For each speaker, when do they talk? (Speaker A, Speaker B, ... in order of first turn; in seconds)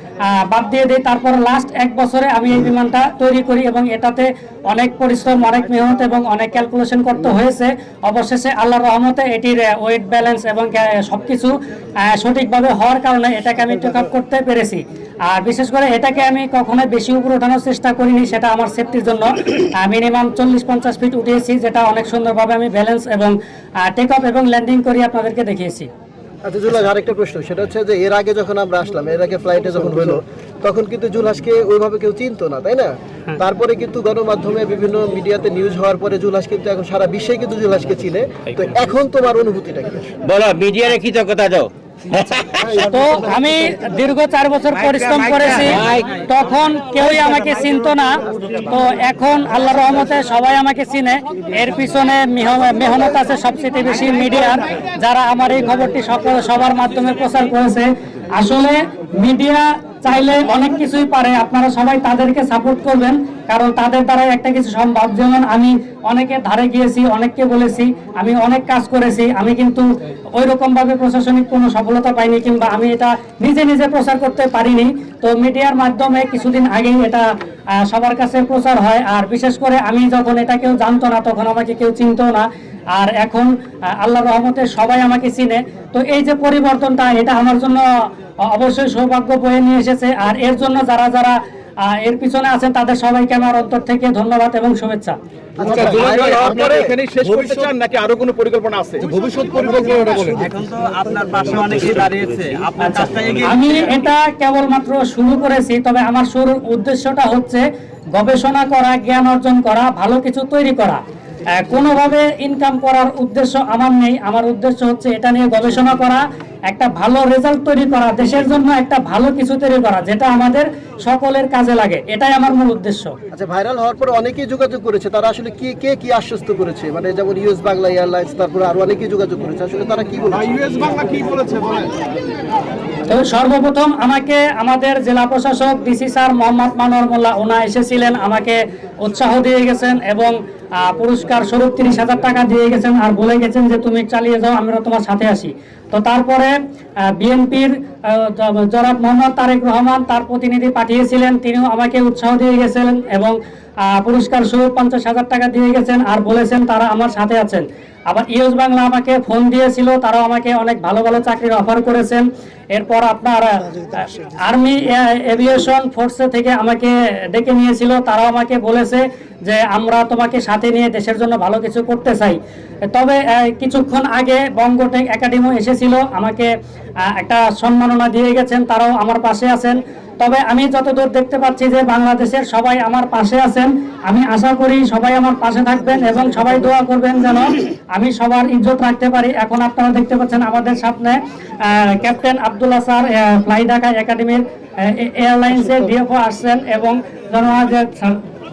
Speaker A: 0.3-11.5, 12.1-25.9, 42.8-77.2, 77.8-87.8, 88.4-95.2, 102.8-107.6, 108.1-111.0, 111.5-123.1, 133.1-146.5, 147.2-153.4, 153.9-172.4, 172.9-176.5, 177.1-198.2
Speaker B: 26.4-40.1, 42.6-43.2, 95.6-97.0, 123.3-131.0
Speaker C: 40.2-42.7, 45.7-46.1
Speaker D: 95.6-100.5, 130.8-131.9
Speaker E: 100.3-103.9